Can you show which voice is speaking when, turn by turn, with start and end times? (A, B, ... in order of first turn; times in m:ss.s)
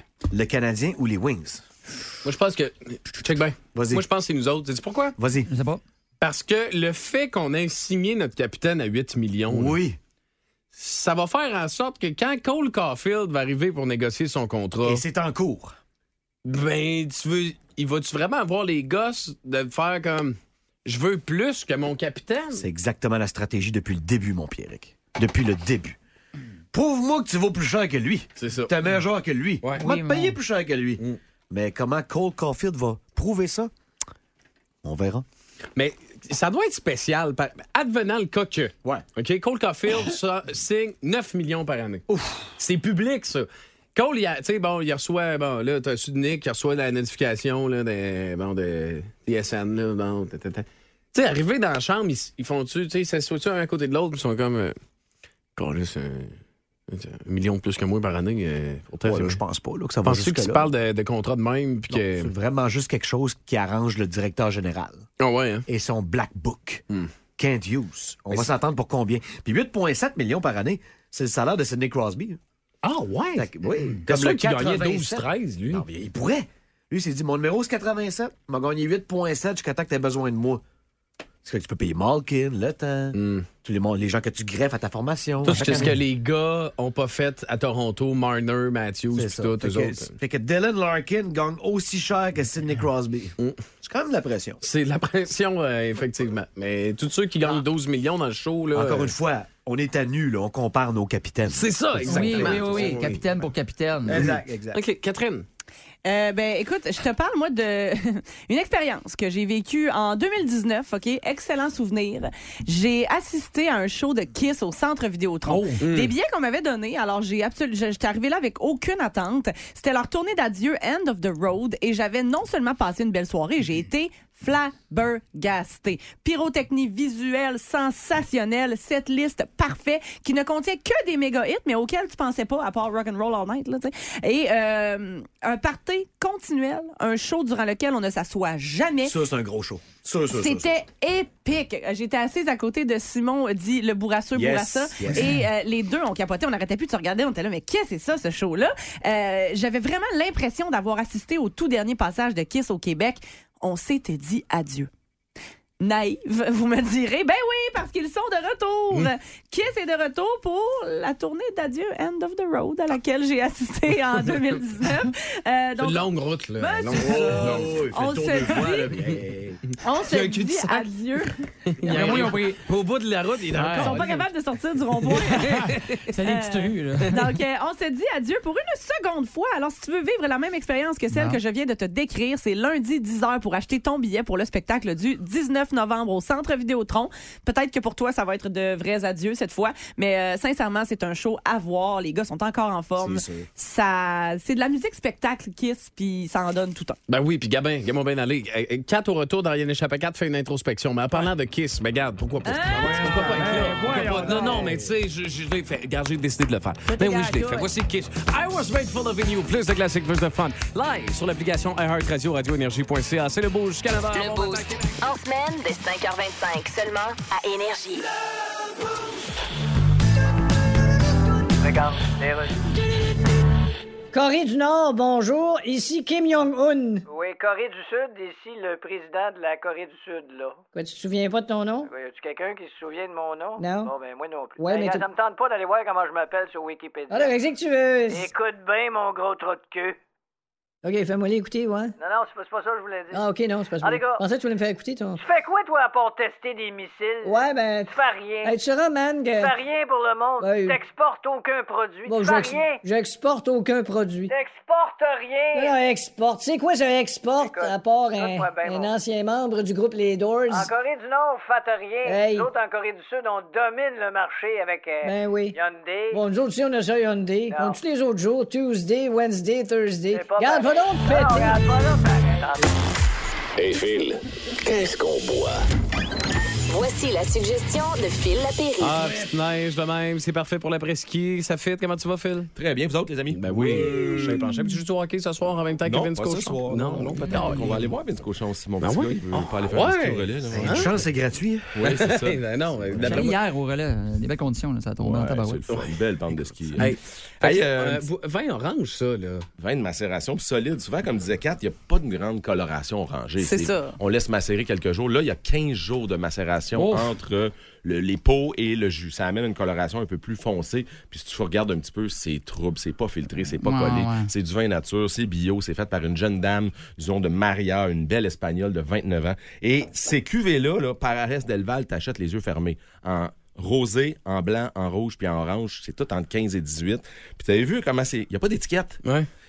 0:00.3-0:01.6 A
0:02.2-0:05.1 B
0:03.7-0:04.0 A
0:05.2-0:05.5 A
0:05.5-0:05.8 C
0:06.2-0:09.8 B
0:09.5-0:10.0 A
0:10.7-0:15.0 B
0:14.8-0:15.7 A
0:16.4-0:22.6 B
0:22.6-0:26.0 A
0:26.7-0:33.7 A
0:28.4-0:28.7 B
0:29.7-0:30.4 C
0:34.8-0:35.2 A
0:35.8-0:42.0 B
0:42.1-0:42.5 A
0:42.6-0:54.7 B
0:55.6-0:56.3 B
0:56.9-0:59.4 B
0:59.0-1:00.7 A
1:00.0-1:02.3 B
1:01.9-1:05.0 A
1:05.2-1:05.6 B
1:05.7-1:06.8 A
1:07.4-1:12.4 A
1:12.8-1:13.5 B
1:13.3-1:20.6 A
1:14.0-1:15.8 B
1:21.4-1:26.0 A
1:23.1-1:23.4 B
1:25.4-1:30.1 B
1:29.1-1:34.6 A
1:34.6-1:39.1 B
1:38.7-1:43.0 A
1:41.5-1:43.2 B
1:42.0-1:44.4 C
1:44.0-1:44.8 A
1:44.1-1:45.4 B
1:46.0-2:19.1 D
1:55.5-1:55.8 C
1:55.8-1:56.1 B
2:19.0-2:20.8 A
2:20.4-2:34.9 D
2:24.3-2:25.4 A
2:35.8-2:46.1 D
2:45.8-2:47.8 B
2:46.6-2:48.9 D
2:46.9-2:49.6 A
2:49.0-2:49.2 B
2:49.8-2:51.3 D
2:50.1-2:50.8 B
2:51.8-2:54.2 B
2:51.9-2:52.6 C
2:51.9-2:52.3 D
2:53.5-2:54.2 C
2:53.8-2:55.6 D
2:55.1-2:56.1 B
2:55.3-2:57.4 C
2:56.2-3:17.0 D
3:01.1-3:01.4 C
3:13.0-3:13.5 A
3:17.1-3:34.9 B
3:22.4-3:24.0 D
3:22.8-3:24.0 A
3:26.9-3:27.7 D
3:34.1-3:38.0 E
3:41.6-3:42.6 F
3:44.1-3:47.0 G
3:47.0-3:50.6 F
3:50.7-3:51.9 G
3:51.8-3:57.4 F
3:53.6-3:53.9 G
3:54.6-3:55.0 G
3:57.1-3:58.3 G
3:58.1-4:00.0 F
4:00.8-4:01.9 G
4:02.0-4:03.2 F
4:03.1-4:05.2 G
4:03.8-4:04.2 F
4:05.2-4:08.6 F
4:07.2-4:09.6 G
4:09.3-4:12.8 F
4:10.4-4:10.8 G
4:12.1-4:14.3 G
4:14.3-4:15.8 F
4:15.5-4:20.7 G
4:17.4-4:18.9 F
4:20.5-4:26.2 F
4:22.0-4:22.5 G
4:25.0-4:25.6 G
4:26.1-4:31.6 G
4:27.5-4:27.8 F
4:30.1-4:32.7 F
4:33.6-4:35.6 H
4:36.7-4:39.1 E
4:38.8-4:42.5 B
4:42.5-4:44.4 I
4:43.3-4:47.9 B
4:45.8-4:51.0 I
4:48.8-4:50.9 B
4:50.5-4:51.8 A
4:51.8-4:53.2 I
4:51.8-4:53.4 B
4:53.0-4:55.6 C
4:55.0-4:58.0 I
4:55.7-4:56.0 B
4:56.7-4:59.5 B
4:59.6-5:29.0 I
5:03.4-5:04.0 D
5:13.6-5:14.3 C
5:29.0-5:29.3 B